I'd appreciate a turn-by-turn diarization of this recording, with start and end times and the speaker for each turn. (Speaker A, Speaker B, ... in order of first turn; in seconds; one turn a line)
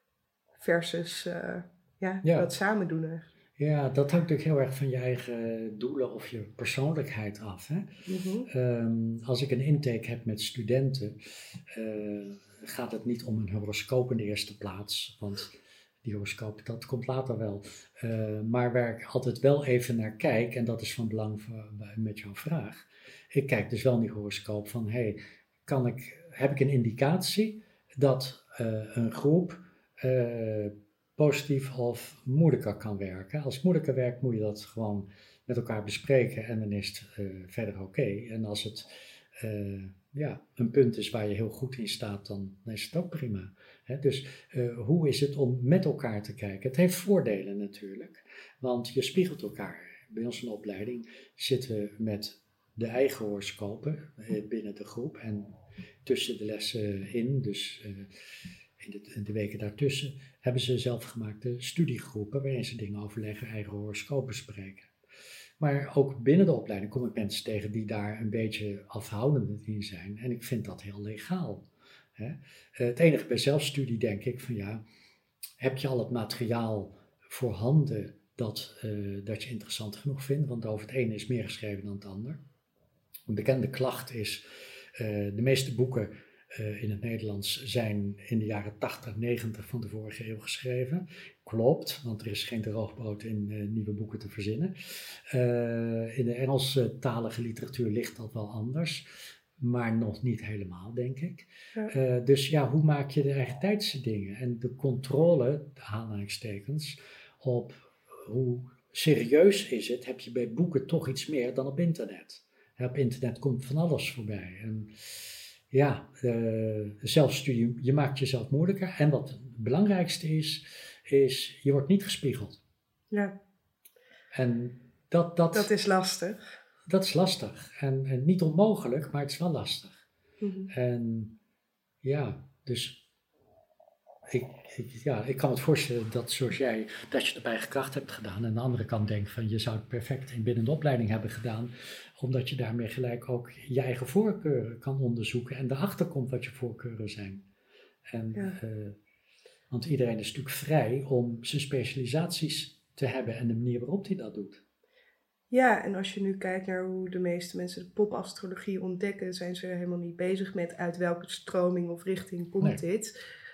Speaker A: 0.6-3.3
Speaker B: 2.2-2.5
Speaker B: 3.6-7.9
Speaker A: 8.1-8.5
Speaker B: 8.5-55.5
Speaker B: 56.0-64.9
Speaker B: 65.6-71.7
Speaker B: 72.2-74.8
Speaker B: 75.6-82.4
Speaker B: 83.3-122.6
Speaker B: 124.3-125.7
Speaker A: 125.5-126.5
Speaker B: 126.9-130.0
Speaker A: 130.4-130.7
Speaker B: 130.7-131.3
Speaker B: 132.0-133.0
Speaker B: 134.3-147.4
Speaker B: 148.1-149.0
Speaker B: 149.7-154.6
Speaker A: 155.5-163.1